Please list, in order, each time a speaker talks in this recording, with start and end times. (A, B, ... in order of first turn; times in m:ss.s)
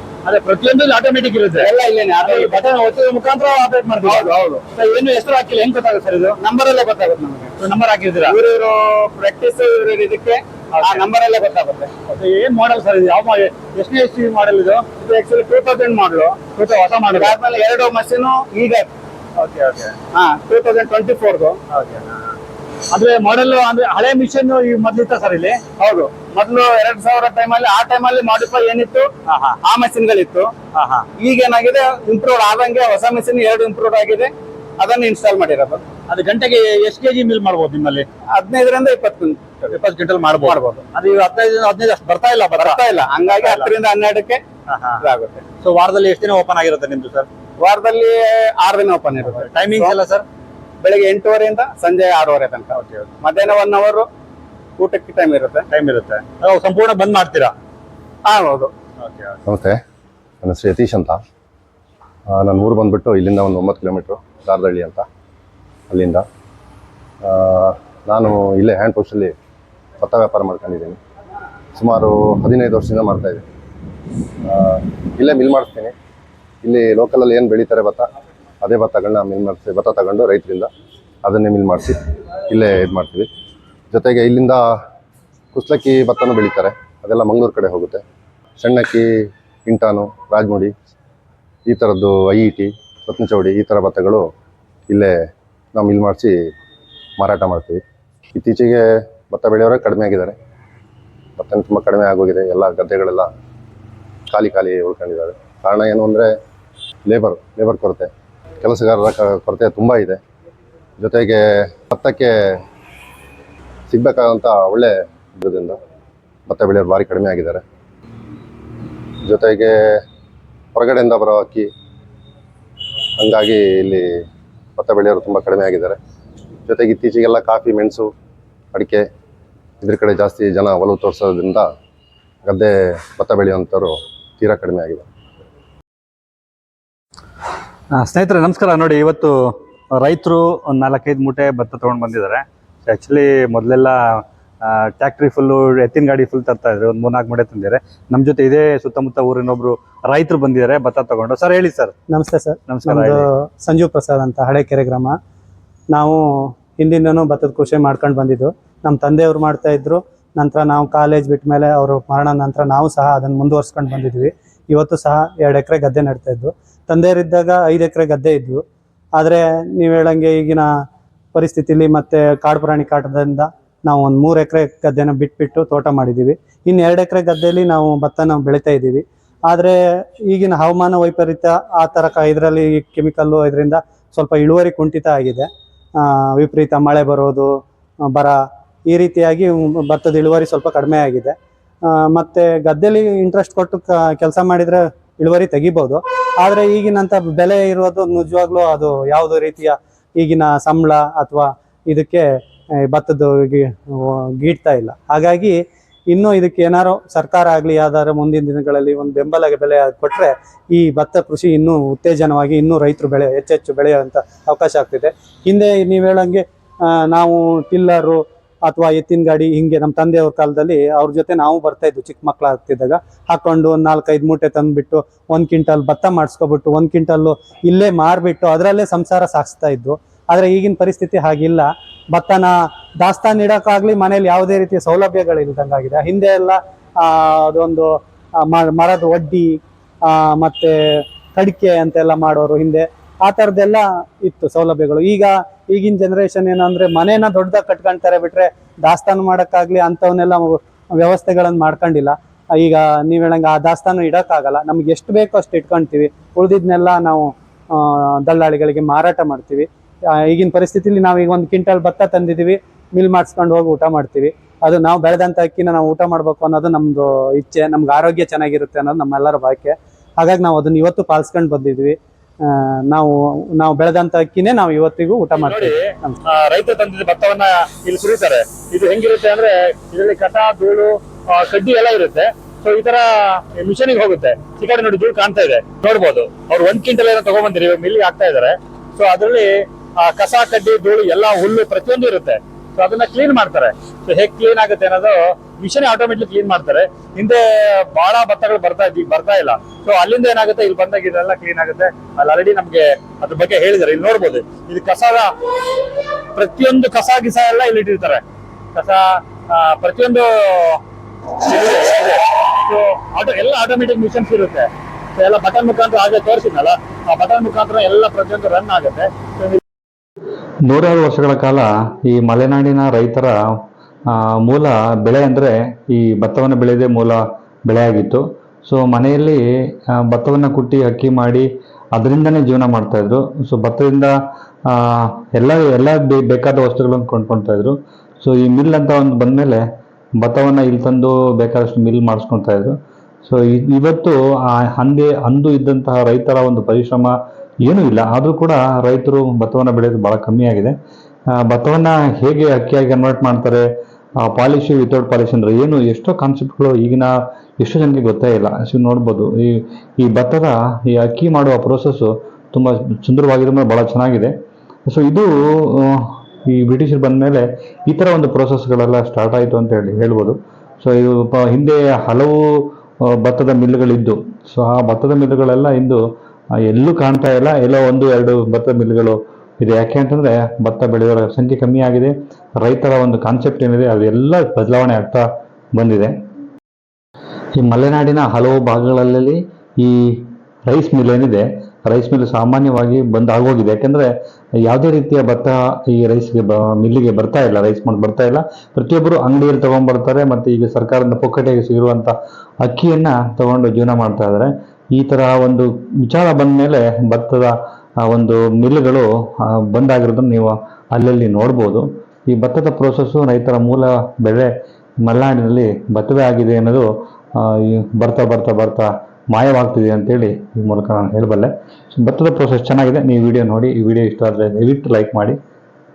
0:00.2-0:06.4 A
0:01.8-0:02.4 B
0:04.2-0:04.6 B
0:06.4-0:06.8 C
0:06.4-0:07.5 B
0:07.6-0:08.4 A
0:08.4-0:10.4 B
0:09.2-0:09.6 C
0:10.7-0:11.0 A
0:10.8-0:11.8 C
0:11.2-0:11.9 B
0:12.1-0:14.9 A
0:15.1-0:16.0 B
0:15.7-0:16.2 C
0:16.3-0:17.4 A
0:17.4-0:18.9 B
0:19.4-0:20.0 A
0:20.2-0:21.6 B
0:21.7-0:22.4 A
0:22.9-0:25.6 A
0:25.8-0:29.1 B
0:29.3-0:29.6 A
0:29.7-0:30.4 B
0:29.9-0:30.5 C
0:30.8-0:31.1 A
0:31.2-0:31.8 C
0:31.2-0:35.8 B
0:36.1-0:38.1 A
0:38.4-0:39.7 B
0:38.8-0:39.4 C
0:39.7-0:43.7 A
0:40.5-0:40.8 B
0:42.6-0:43.6 C
0:43.6-0:44.4 B
0:44.7-0:45.0 A
0:45.6-0:47.3 A
0:47.6-0:49.0 B
0:48.6-0:49.4 C
0:49.4-0:50.2 A
0:50.8-0:52.8 B
0:52.7-0:53.5 A
0:53.4-0:54.1 B
0:54.8-0:55.6 B
0:55.7-0:57.5 A
0:58.3-0:58.7 B
0:59.0-0:59.4 A
0:59.5-0:59.8 C
1:00.4-1:01.2 C
1:02.3-1:05.0 C
1:05.9-1:06.2 C
1:07.2-1:09.3 C
1:10.0-1:11.0 C
1:11.8-1:13.4 C
1:14.5-1:15.9 C
1:16.6-1:18.0 C
1:18.6-1:20.7 C
1:21.2-1:21.9 C
1:22.5-1:23.3 C
1:23.9-1:24.6 C
1:25.5-1:28.0 C
1:28.6-1:29.0 C
1:29.7-1:30.7 C
1:31.7-1:34.2 C
1:35.8-1:36.3 C
1:37.2-1:37.8 C
1:38.4-1:38.8 C
1:39.3-1:40.3 C
1:41.4-1:43.3 C
1:44.3-1:46.3 C
1:47.1-1:48.1 C
1:48.6-1:50.2 C
1:51.0-1:52.3 C
1:53.9-1:55.7 C
1:56.5-1:57.6 C
1:59.3-1:59.7 C
2:00.8-2:01.7 C
2:03.2-2:04.0 C
2:04.8-2:06.0 C
2:06.7-2:08.1 C
2:08.7-2:09.0 C
2:09.8-2:11.6 C
2:12.5-2:15.0 C
2:17.9-2:31.9 A
2:32.1-2:35.2 D
2:32.7-2:33.2 A
2:35.9-2:48.6 D
2:49.2-2:50.7 D
2:51.3-2:59.8 D
3:00.3-3:05.5 D
3:06.0-3:07.5 D
3:08.1-3:08.4 D
3:08.9-3:11.4 D
3:11.9-3:22.3 D
3:22.9-3:25.6 D
3:26.1-3:57.9 D
3:58.5-4:00.8 D
4:01.3-4:19.7 D
4:20.2-4:36.2 D
4:35.4-5:05.3 A
5:06.0-5:08.2 A
5:08.7-5:10.8 A
5:11.4-5:19.6 A
5:20.6-5:23.4 E
5:24.1-5:34.2 E
5:34.7-5:39.6 E
5:40.2-5:50.8 E
5:51.4-5:53.6 E
5:54.2-6:04.3 E
6:04.9-6:16.0 E
6:16.6-6:26.1 E
6:27.6-6:34.1 E
6:34.6-7:05.4 E